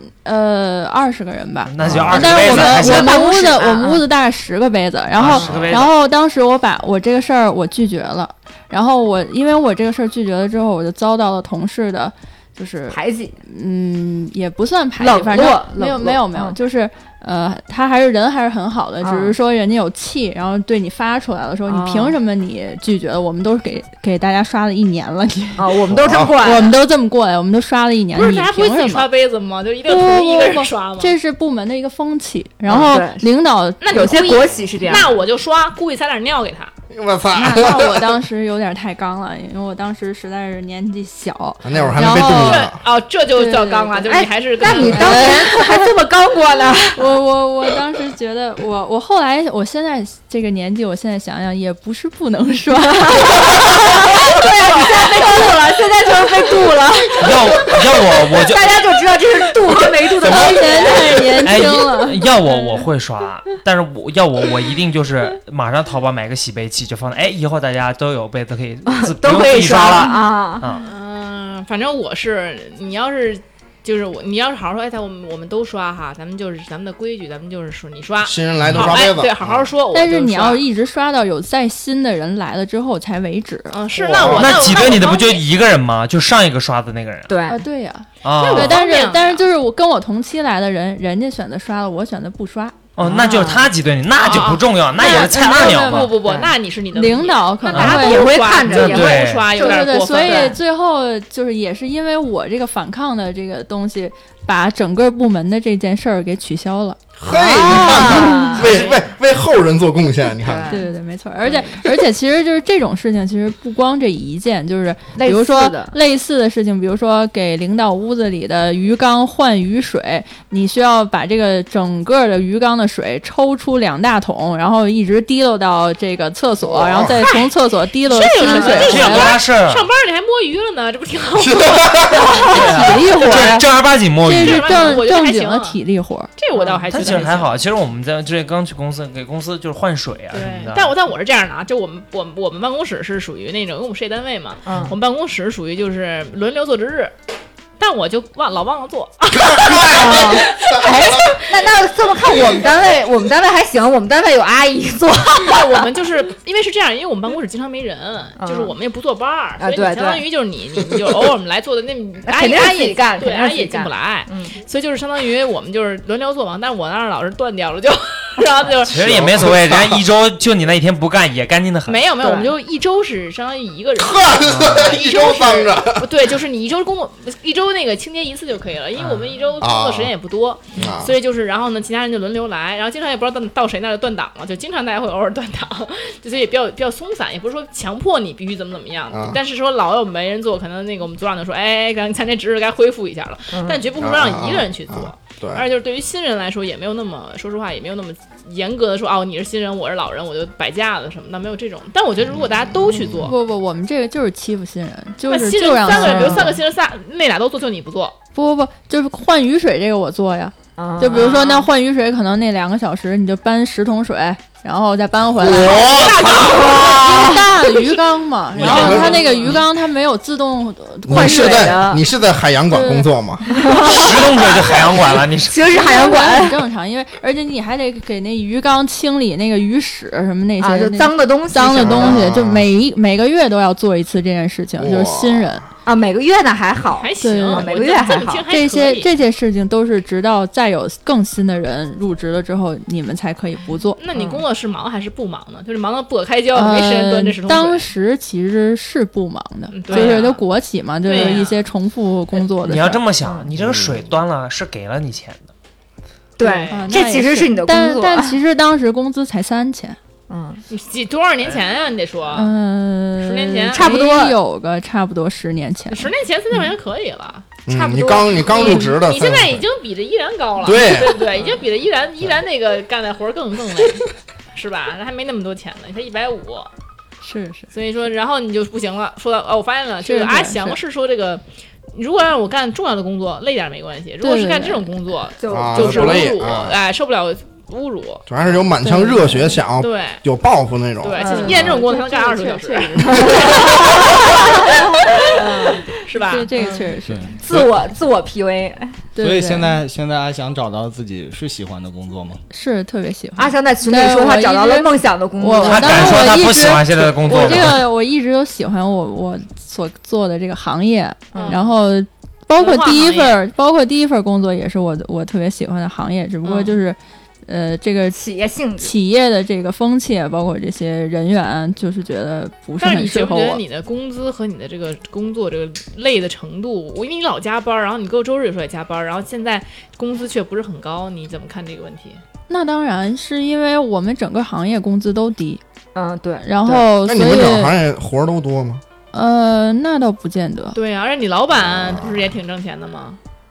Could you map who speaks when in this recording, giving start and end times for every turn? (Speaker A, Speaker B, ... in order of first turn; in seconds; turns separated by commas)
Speaker A: 0.2-29.1, Speaker B: 1.6-3.2, Speaker C: 1.8-2.3, Speaker D: 2.2-4.0, Speaker B: 5.2-5.9, Speaker C: 5.4-5.7, Speaker D: 12.9-13.4, Speaker D: 15.0-16.6, Speaker D: 19.0-19.4, Speaker D: 21.7-22.2, Speaker D: 25.6-26.8, Speaker C: 25.9-26.4, Speaker E: 28.1-31.1, Speaker A: 29.9-34.3, Speaker D: 32.7-33.3, Speaker E: 33.8-36.7, Speaker D: 33.9-35.1, Speaker C: 36.9-38.2, Speaker A: 37.3-42.7, Speaker C: 41.6-42.8, Speaker E: 42.3-45.4, Speaker A: 43.3-45.9, Speaker D: 44.0-47.2, Speaker A: 46.9-53.6, Speaker D: 52.9-61.6, Speaker B: 57.2-58.8, Speaker A: 60.1-62.4, Speaker B: 61.4-70.9, Speaker D: 68.8-70.7, Speaker E: 70.8-80.6, Speaker C: 78.2-79.7, Speaker B: 78.6-79.0, Speaker A: 79.9-83.8, Speaker E: 83.7-85.4, Speaker C: 83.9-85.0, Speaker B: 84.2-87.3, Speaker D: 87.3-87.6, Speaker A: 87.5-92.9, Speaker B: 88.2-88.8, Speaker E: 88.3-89.4, Speaker B: 93.0-96.1, Speaker D: 93.0-93.7, Speaker E: 94.2-100.6, Speaker A: 95.6-96.1, Speaker D: 96.2-96.5, Speaker A: 96.9-98.3, Speaker B: 97.7-98.0, Speaker D: 97.9-100.6, Speaker B: 98.6-99.5, Speaker A: 99.5-107.0, Speaker C: 107.2-110.7, Speaker D: 107.2-108.9, Speaker A: 107.9-108.7, Speaker E: 108.6-109.0, Speaker D: 110.4-110.9, Speaker A: 110.7-129.4, Speaker D: 111.4-111.8, Speaker D: 115.2-116.0, Speaker C: 126.6-127.2, Speaker E: 128.0-132.9, Speaker B: 128.6-129.9, Speaker C: 131.4-132.3, Speaker A: 132.3-136.3, Speaker B: 132.4-135.0, Speaker E: 134.3-135.8, Speaker E: 136.4-137.6, Speaker D: 136.5-136.8, Speaker B: 136.9-140.9, Speaker E: 140.3-147.1, Speaker D: 144.6-144.9, Speaker E: 147.8-151.7, Speaker D: 149.6-155.8, Speaker E: 155.4-169.2, Speaker D: 158.4-158.7, Speaker D: 159.6-160.2, Speaker D: 162.2-164.6, Speaker B: 168.8-172.0, Speaker C: 169.0-170.0, Speaker E: 171.8-203.3, Speaker D: 172.2-172.5, Speaker C: 174.0-176.1, Speaker B: 174.4-174.9, Speaker B: 179.0-179.2, Speaker C: 179.6-180.1, Speaker C: 180.7-181.1, Speaker C: 189.1-189.4, Speaker D: 193.5-193.8, Speaker C: 194.0-195.7, Speaker C: 202.3-203.3, Speaker A: 203.2-206.6, Speaker E: 205.3-208.2, Speaker D: 205.9-206.5, Speaker A: 208.3-215.9, Speaker D: 210.8-211.6, Speaker E: 211.1-211.6, Speaker C: 215.4-217.3, Speaker E: 215.4-217.1, Speaker D: 215.8-217.5, Speaker A: 216.9-221.8, Speaker C: 218.5-219.2, Speaker E: 218.6-219.6, Speaker D: 218.8-219.5, Speaker C: 221.1-223.5, Speaker D: 221.1-222.0, Speaker A: 222.7-223.7, Speaker D: 223.5-226.6, Speaker B: 223.8-225.8, Speaker A: 225.7-235.6, Speaker D: 230.6-232.3, Speaker C: 231.7-232.7, Speaker C: 234.8-235.6, Speaker D: 235.8-238.4, Speaker E: 236.9-239.1, Speaker A: 237.2-237.7, Speaker A: 238.5-244.0, Speaker E: 244.0-247.9, Speaker D: 244.1-244.4, Speaker A: 246.5-253.1, Speaker E: 249.7-250.4, Speaker D: 249.9-250.2, Speaker E: 251.0-251.6, Speaker B: 252.6-255.5, Speaker D: 253.2-253.5, Speaker C: 253.6-254.1, Speaker D: 256.4-258.4, Speaker E: 256.4-257.0, Speaker A: 256.7-260.0, Speaker D: 260.3-260.6, Speaker E: 260.7-262.5, Speaker A: 262.3-266.1, Speaker E: 263.2-263.8, Speaker D: 263.7-264.4, Speaker E: 265.9-276.7, Speaker C: 267.7-269.6, Speaker D: 267.7-268.6, Speaker C: 270.6-271.3, Speaker A: 277.2-277.7, Speaker E: 277.7-288.3, Speaker A: 280.0-280.8, Speaker A: 284.2-284.9, Speaker D: 285.4-286.4, Speaker C: 285.5-286.8, Speaker C: 288.3-291.2, Speaker A: 288.8-289.6, Speaker E: 289.8-290.2, Speaker E: 291.0-296.5, Speaker A: 291.2-293.9, Speaker D: 291.2-291.8, Speaker D: 292.9-295.9, Speaker A: 296.1-297.4, Speaker D: 296.6-296.9, Speaker F: 297.1-297.7, Speaker D: 297.4-299.0, Speaker A: 299.1-299.8, Speaker F: 299.2-302.4, Speaker A: 302.5-318.2, Speaker D: 303.4-306.3, Speaker B: 305.6-307.9, Speaker D: 311.3-311.6, Speaker E: 311.3-311.7, Speaker E: 312.6-313.4, Speaker E: 316.4-316.8, Speaker D: 318.1-318.9, Speaker A: 318.8-323.6, Speaker E: 322.8-332.2, Speaker A: 332.5-335.6, Speaker D: 335.9-336.8, Speaker A: 336.4-337.8, Speaker C: 337.0-338.8, Speaker A: 339.1-340.8, Speaker E: 340.7-343.2, Speaker C: 341.7-342.3